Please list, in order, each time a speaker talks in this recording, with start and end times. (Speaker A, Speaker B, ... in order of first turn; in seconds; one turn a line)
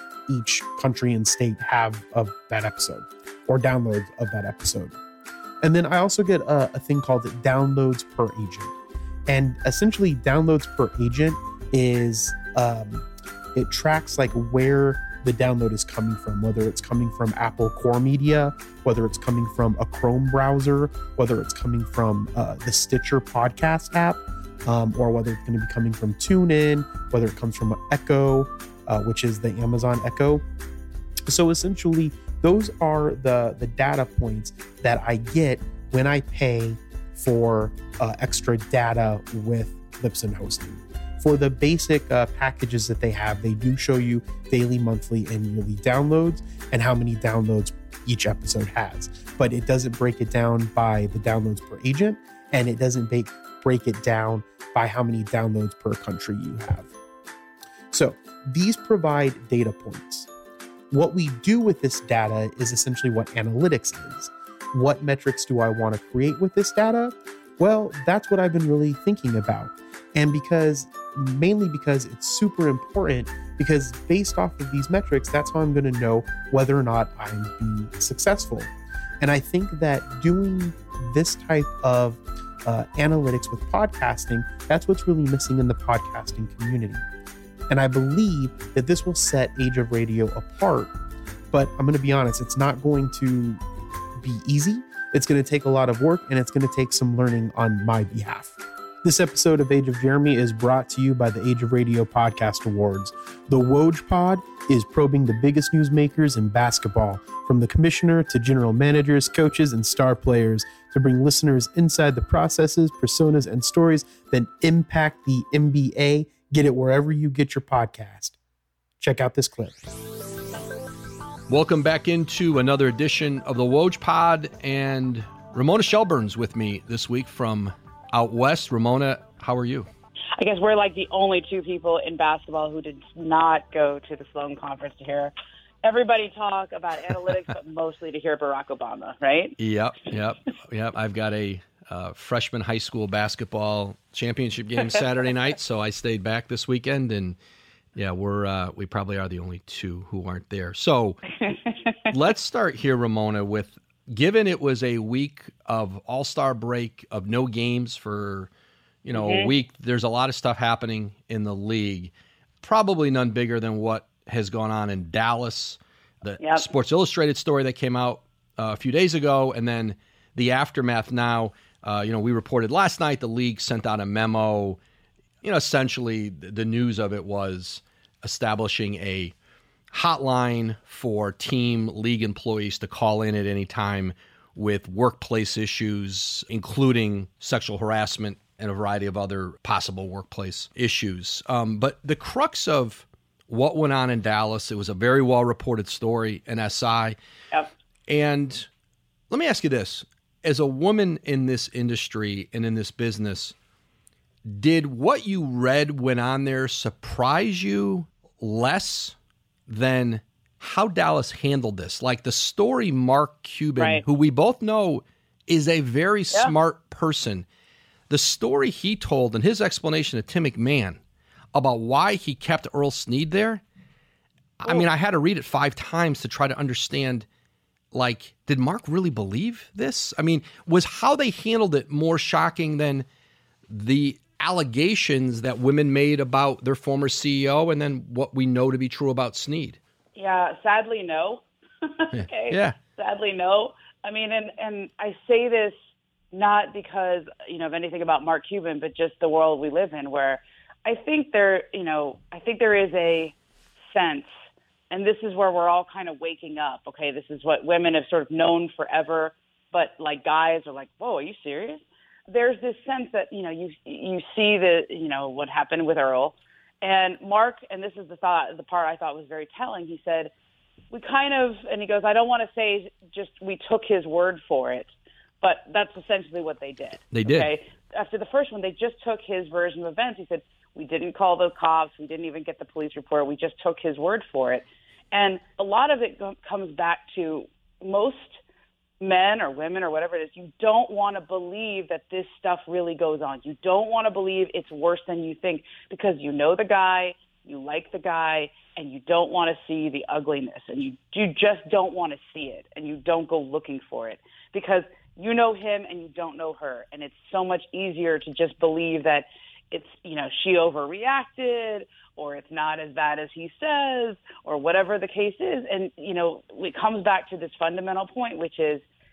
Speaker A: 0.3-4.9
Speaker A: 5.6-8.7
Speaker A: 9.3-30.4
Speaker A: 31.3-56.9
Speaker A: 57.9-60.3
Speaker A: 60.9-87.0
Speaker A: 87.7-90.9
Speaker A: 91.5-93.6
Speaker A: 94.2-118.3
Speaker A: 119.0-119.8
Speaker B: 121.5-129.9
Speaker C: 130.4-135.3
Speaker C: 135.8-139.5
Speaker B: 139.6-147.4
Speaker B: 147.9-151.2
Speaker B: 152.1-158.5
Speaker B: 159.0-174.8
Speaker C: 159.1-159.5
Speaker C: 166.4-166.7
Speaker B: 175.4-179.3
Speaker B: 179.9-197.2
Speaker B: 198.1-198.7
Speaker B: 199.3-203.5
Speaker B: 204.5-209.1
Speaker B: 209.7-217.4
Speaker C: 213.8-214.0
Speaker B: 218.1-221.0
Speaker B: 221.5-223.6
Speaker B: 224.6-227.2
Speaker B: 227.9-233.1
Speaker B: 233.7-239.8
Speaker C: 240.1-245.7
Speaker B: 242.1-242.8
Speaker C: 246.3-253.3
Speaker C: 253.9-254.3
Speaker C: 254.9-270.3
Speaker C: 270.9-288.4
Speaker B: 277.1-277.5
Speaker C: 289.0-318.8